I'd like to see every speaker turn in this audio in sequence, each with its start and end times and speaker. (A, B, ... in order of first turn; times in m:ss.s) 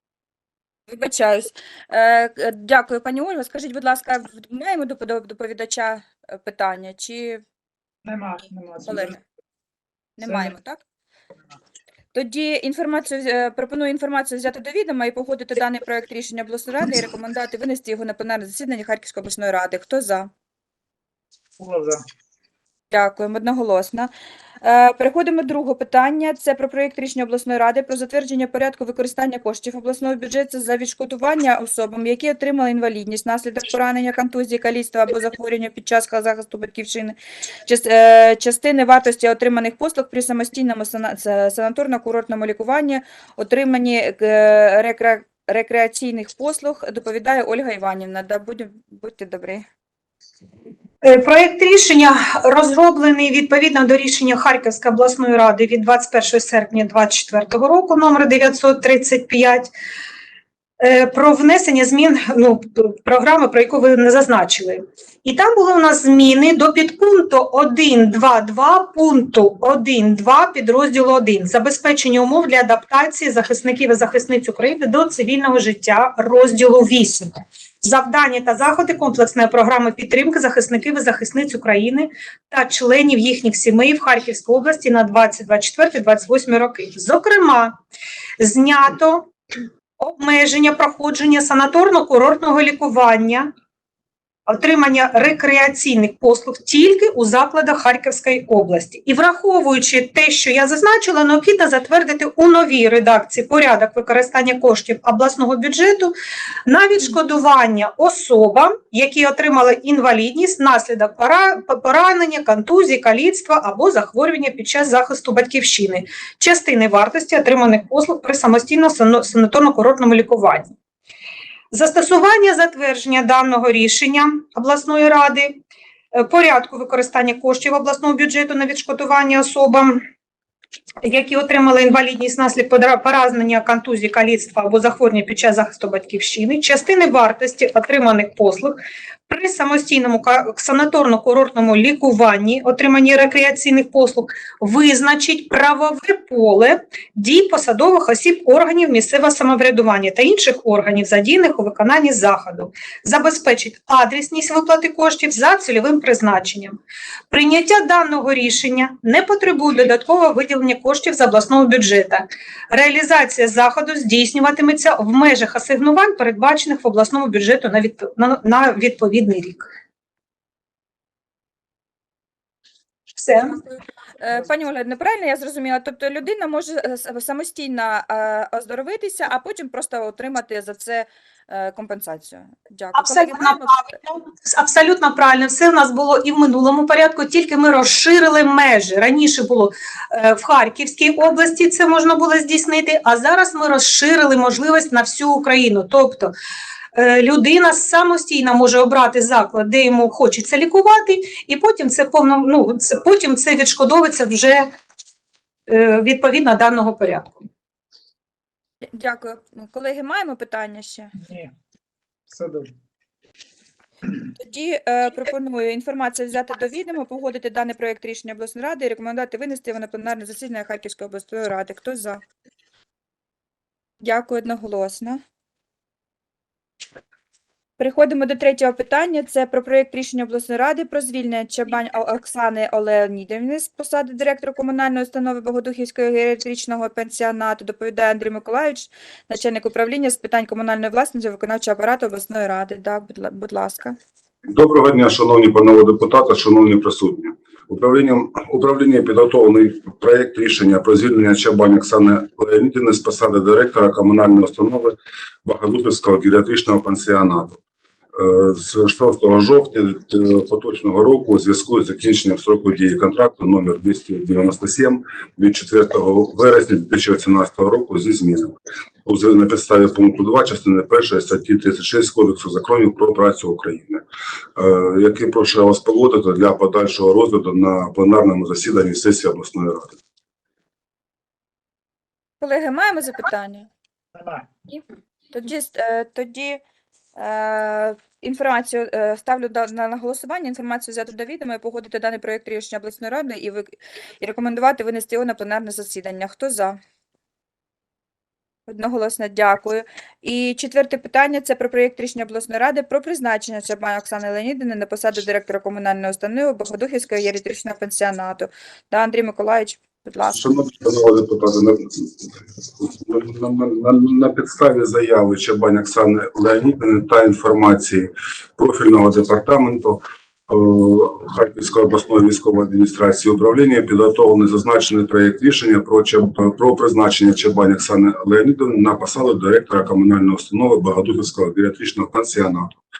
0:00.9-0:07.4 A
0:08.0-0:09.2 B
0:08.8-0:09.2 A
0:10.2-0:10.8 A
0:10.2-0:10.5 B
0:12.1-0:20.3 A
0:21.6-0:22.0 B
0:22.9-0:24.1 A
0:24.6-0:49.6 A
0:51.0-0:59.7 C
1:00.8-1:27.8 C
1:28.4-1:29.3 C
1:30.0-1:33.5 C
1:34.5-1:46.1 C
1:46.7-2:00.7 C
2:01.7-2:05.6 C
2:06.1-2:10.0 C
2:11.0-2:36.8 C
2:37.3-2:49.7 C
2:53.2-2:53.6 C
2:53.5-3:03.8 A
3:03.0-3:16.3 C
3:16.9-3:24.7 C
3:25.7-3:27.4 C
3:28.9-3:31.1 A
3:31.2-3:31.5 B
3:32.3-3:32.7 B
3:34.4-3:42.2 A
3:44.0-3:45.2 A
3:47.8-4:04.0 A
4:04.5-4:17.6 D
4:18.1-4:34.0 D
4:34.6-4:40.0 D
4:42.4-4:43.7 A
4:44.2-4:44.4 B
4:45.3-4:46.6 A
4:47.2-4:56.8 A
4:58.7-5:10.4 A
5:10.3-5:32.8 D